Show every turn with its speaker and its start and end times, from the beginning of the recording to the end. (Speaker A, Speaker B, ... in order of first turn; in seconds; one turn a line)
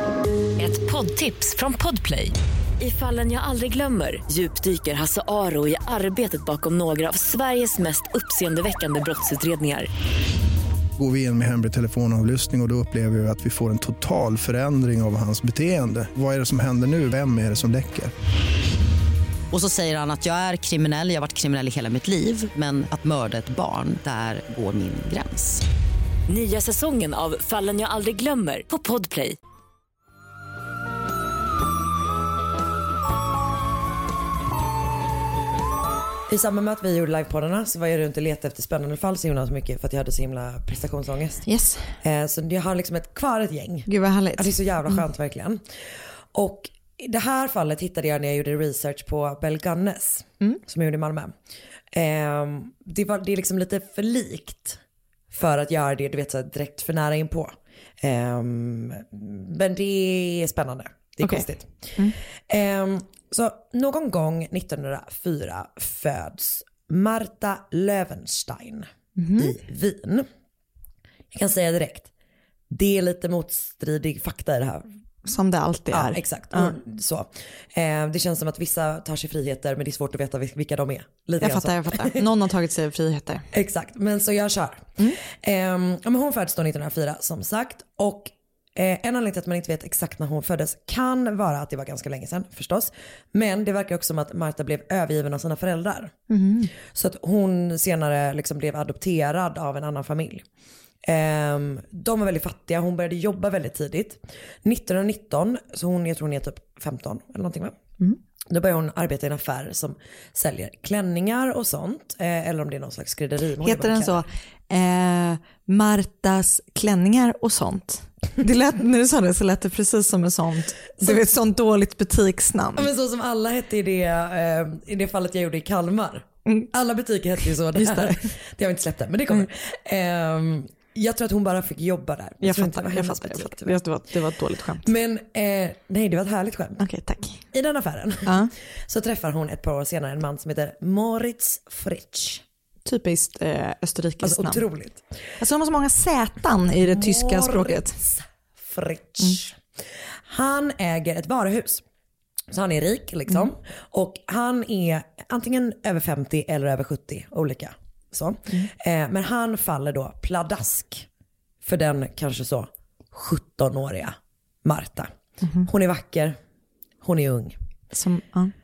Speaker A: 0.6-9.9
Speaker B: 11.0-18.1
Speaker C: 19.5-25.6
Speaker A: 26.3-29.4
Speaker D: 36.3-41.4
Speaker E: 41.5-42.0
Speaker D: 42.0-45.6
Speaker E: 43.9-45.0
Speaker D: 46.3-51.3
Speaker D: 51.9-54.8
Speaker D: 55.3-61.7
Speaker E: 61.2-62.2
Speaker D: 62.5-70.3
Speaker E: 69.2-69.5
Speaker D: 71.3-72.1
Speaker D: 72.7-74.9
Speaker E: 75.2-76.8
Speaker D: 75.9-82.2
Speaker E: 81.4-83.5
Speaker D: 83.5-96.1
Speaker E: 96.3-96.7
Speaker D: 96.9-100.5
Speaker D: 101.0-107.8
Speaker D: 108.5-114.2
Speaker E: 113.6-122.9
Speaker D: 121.0-121.3
Speaker D: 122.8-133.8
Speaker E: 127.7-128.3
Speaker E: 132.4-134.9
Speaker D: 134.8-136.8
Speaker E: 136.8-137.4
Speaker D: 137.5-142.4
Speaker E: 138.2-138.5
Speaker E: 142.9-144.6
Speaker D: 144.2-145.1
Speaker E: 145.4-148.0
Speaker D: 146.8-149.6
Speaker D: 150.3-151.8
Speaker D: 152.5-161.1
Speaker D: 161.6-165.1
Speaker E: 165.4-165.7
Speaker D: 165.6-166.4
Speaker D: 167.0-167.6
Speaker E: 167.9-168.5